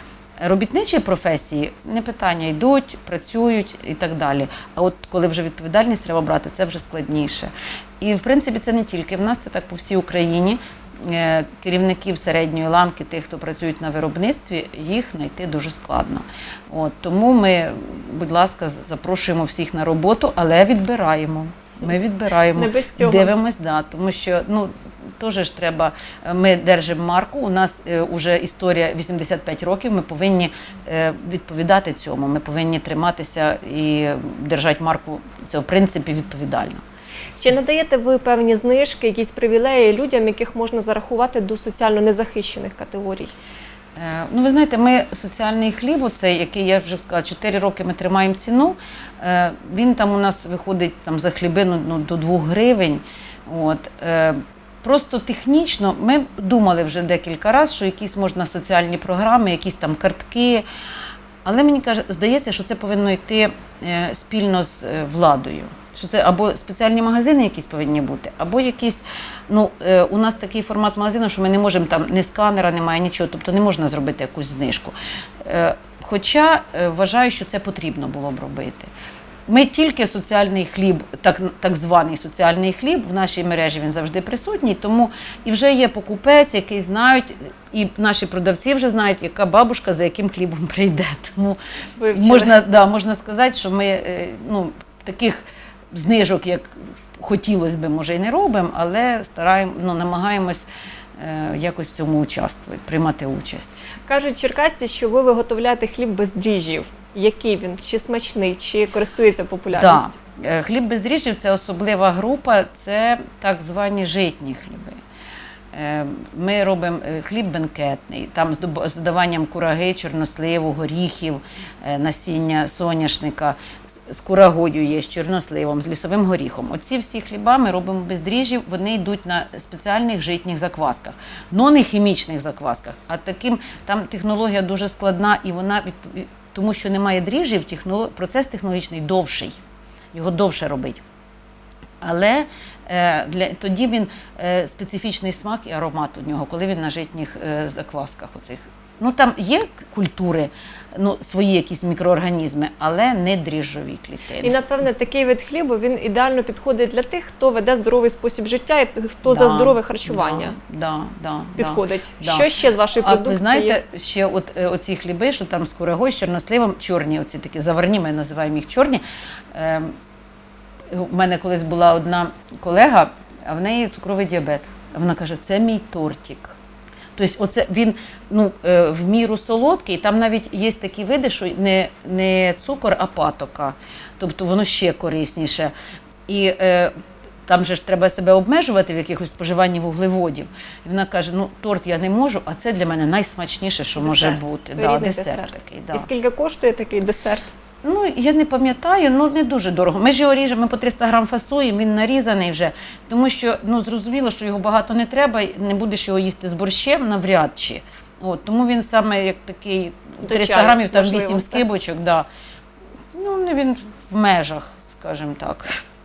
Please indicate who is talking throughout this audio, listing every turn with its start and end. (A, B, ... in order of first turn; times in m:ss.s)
0:00.4-0:36.8 A
0:22.5-0:23.3 B
0:37.4-0:43.3 B
0:44.0-1:00.6 A
1:01.4-1:18.9 A
1:19.5-1:31.6 A
1:32.0-1:32.6 B
1:32.1-1:40.7 A
1:41.2-1:43.8 A
1:44.1-1:50.2 B
1:49.7-1:55.0 A
1:55.7-2:19.6 A
2:20.1-2:21.0 A
2:22.0-2:34.6 A
2:34.4-2:40.6 B
2:39.3-2:49.0 A
2:41.6-2:43.8 B
2:49.5-2:50.0 A
2:50.9-2:56.6 A
2:57.2-3:05.7 A
3:06.3-3:06.9 A
3:07.5-3:16.1 A
3:14.0-3:17.5 B
3:17.8-3:32.3 A
3:30.2-3:31.6 B
3:33.1-3:35.8 A